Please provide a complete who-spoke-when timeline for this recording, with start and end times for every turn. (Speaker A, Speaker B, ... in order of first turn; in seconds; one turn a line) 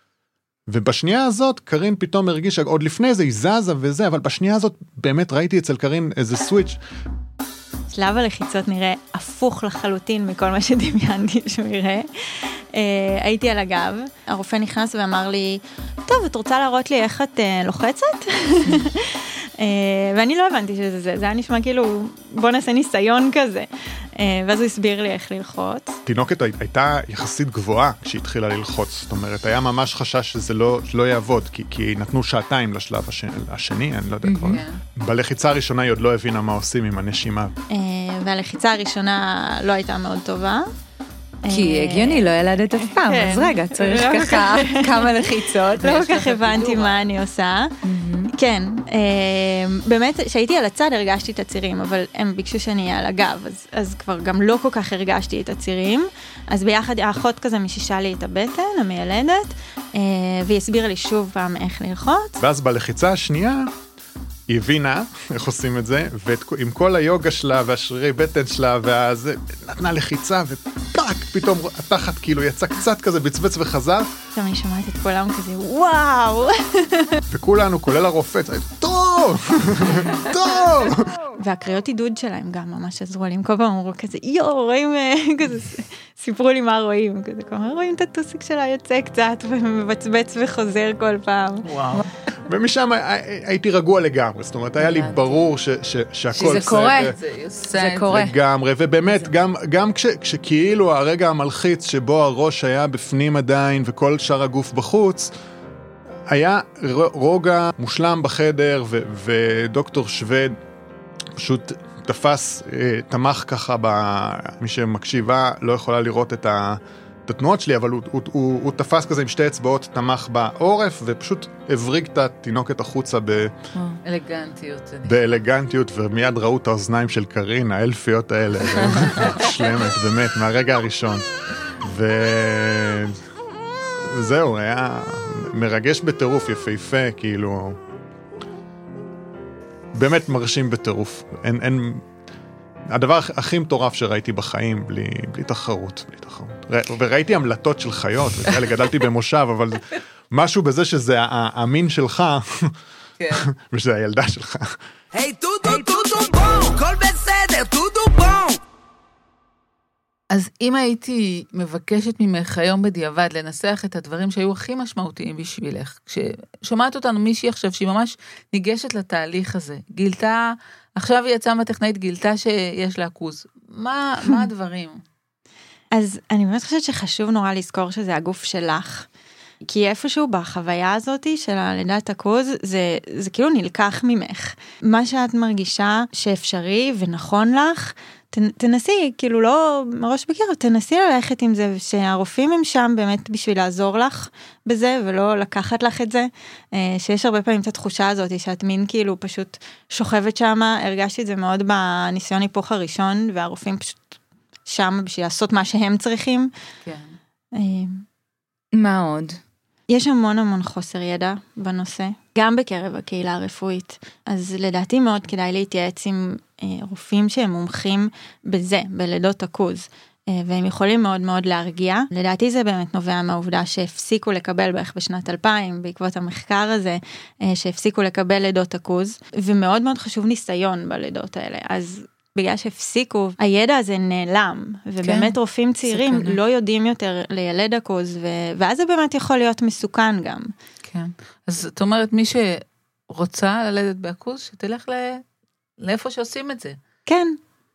Speaker A: 0.7-6.8
Speaker B: 7.9-26.0
Speaker A: 26.1-37.5
Speaker C: 34.2-34.6
Speaker D: 34.5-34.8
Speaker B: 37.7-40.7
Speaker B: 41.4-42.3
Speaker C: 41.5-46.0
Speaker B: 42.9-45.3
Speaker D: 45.8-47.0
Speaker B: 45.8-47.8
Speaker C: 47.8-48.3
Speaker B: 48.3-62.4
Speaker A: 62.4-63.7
Speaker A: 64.5-74.1
Speaker B: 74.3-77.2
Speaker A: 77.3-81.2
Speaker B: 81.3-91.7
Speaker D: 91.6-92.1
Speaker A: 92.4-97.1
Speaker C: 94.8-95.4
Speaker C: 96.3-97.2
Speaker D: 96.3-98.2
Speaker C: 97.7-98.4
Speaker A: 98.1-105.3
Speaker A: 106.3-110.6
Speaker A: 111.4-123.5
Speaker D: 124.0-125.4
Speaker A: 125.0-131.3
Speaker A: 131.8-133.2
Speaker A: 134.1-137.8
Speaker A: 139.9-142.1
Speaker A: 142.9-152.7
Speaker D: 153.2-153.5
Speaker A: 153.6-154.8
Speaker E: 155.1-158.6
Speaker D: 160.3-175.0
Speaker B: 175.9-179.1
Speaker B: 179.6-204.1
Speaker B: 204.7-206.5
Speaker D: 206.8-207.2
Speaker B: 207.5-208.0
Speaker C: 208.7-209.4
Speaker B: 209.9-240.5
Speaker C: 235.0-235.3
Speaker C: 235.9-236.4
Speaker D: 240.9-245.2
Speaker D: 245.8-246.8
Speaker B: 247.1-247.4